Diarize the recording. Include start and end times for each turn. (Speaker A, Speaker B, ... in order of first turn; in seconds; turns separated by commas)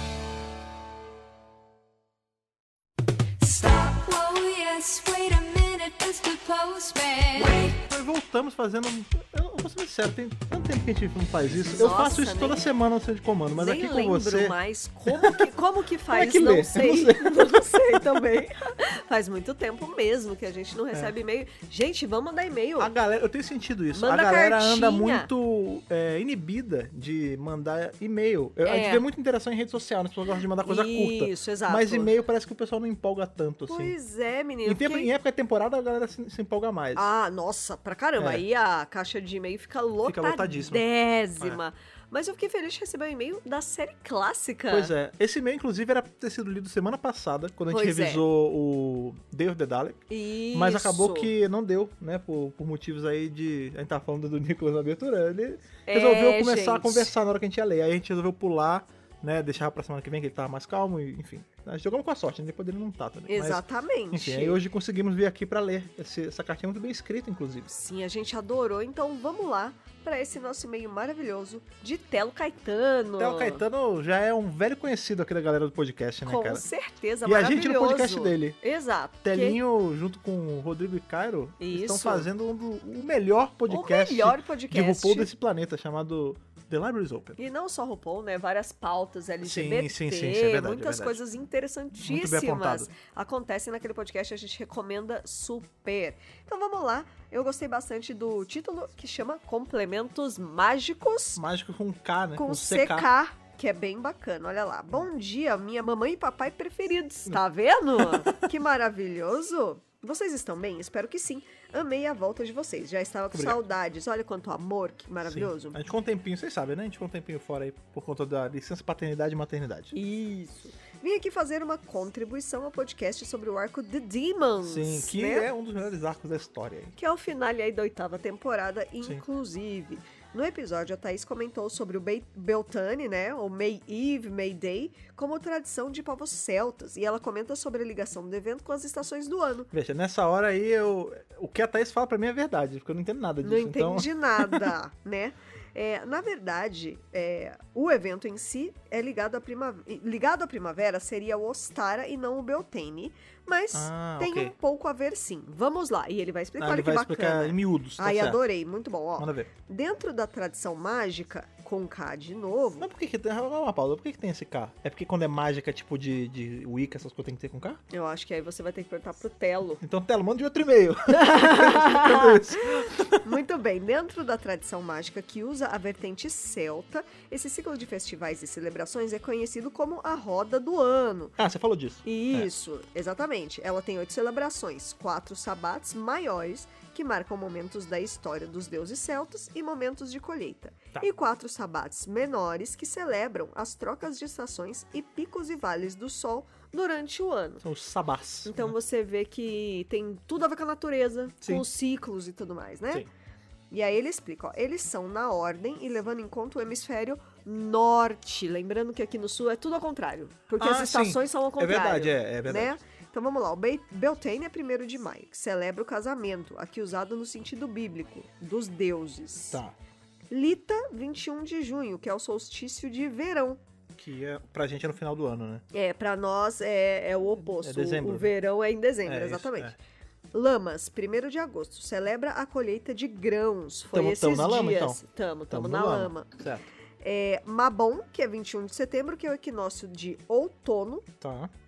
Speaker A: 3.4-7.3, Speaker B: 7.3-14.6, Speaker C: 11.6-12.6, Speaker C: 13.6-22.9, Speaker B: 15.1-15.4, Speaker B: 16.1-18.2, Speaker B: 22.8-33.9, Speaker C: 23.9-25.3, Speaker C: 28.6-29.0, Speaker C: 30.6-32.1, Speaker C: 33.6-35.1, Speaker B: 34.6-37.0, Speaker C: 36.9-44.9, Speaker B: 38.2-38.4, Speaker B: 40.0-40.8, Speaker B: 44.7-67.7, Speaker C: 47.7-48.2, Speaker C: 50.1-51.3, Speaker C: 55.9-57.1, Speaker C: 63.3-64.6, Speaker C: 67.7-73.6, Speaker B: 73.2-76.6, Speaker C: 76.2-79.6, Speaker B: 77.2-78.6, Speaker B: 79.2-87.4, Speaker C: 81.6-82.3, Speaker C: 83.7-85.3, Speaker C: 87.4-101.4, Speaker B: 89.4-91.2, Speaker B: 92.0-92.9, Speaker B: 101.3-103.1, Speaker C: 102.4-115.8, Speaker B: 108.0-108.4, Speaker B: 113.3-113.6, Speaker B: 115.2-119.9, Speaker C: 119.9-125.5, Speaker B: 124.6-126.9, Speaker C: 127.0-139.7, Speaker B: 139.7-144.7, Speaker C: 143.4-162.9, Speaker B: 153.7-154.5, Speaker B: 156.6-158.4, Speaker B: 159.2-159.5, Speaker B: 162.8-167.8, Speaker C: 167.9-169.8, Speaker B: 169.8-173.2, Speaker C: 171.1-181.4, Speaker B: 181.4-182.5, Speaker C: 182.0-197.6, Speaker B: 197.6-198.7, Speaker C: 198.4-203.0, Speaker C: 203.7-219.6, Speaker B: 210.6-212.8, Speaker C: 220.3-223.6, Speaker B: 223.9-225.6, Speaker C: 225.7-229.7, Speaker B: 227.5-228.3, Speaker B: 229.0-229.8, Speaker C: 230.3-236.3, Speaker B: 233.9-236.7, Speaker C: 237.0-241.1, Speaker B: 241.2-241.5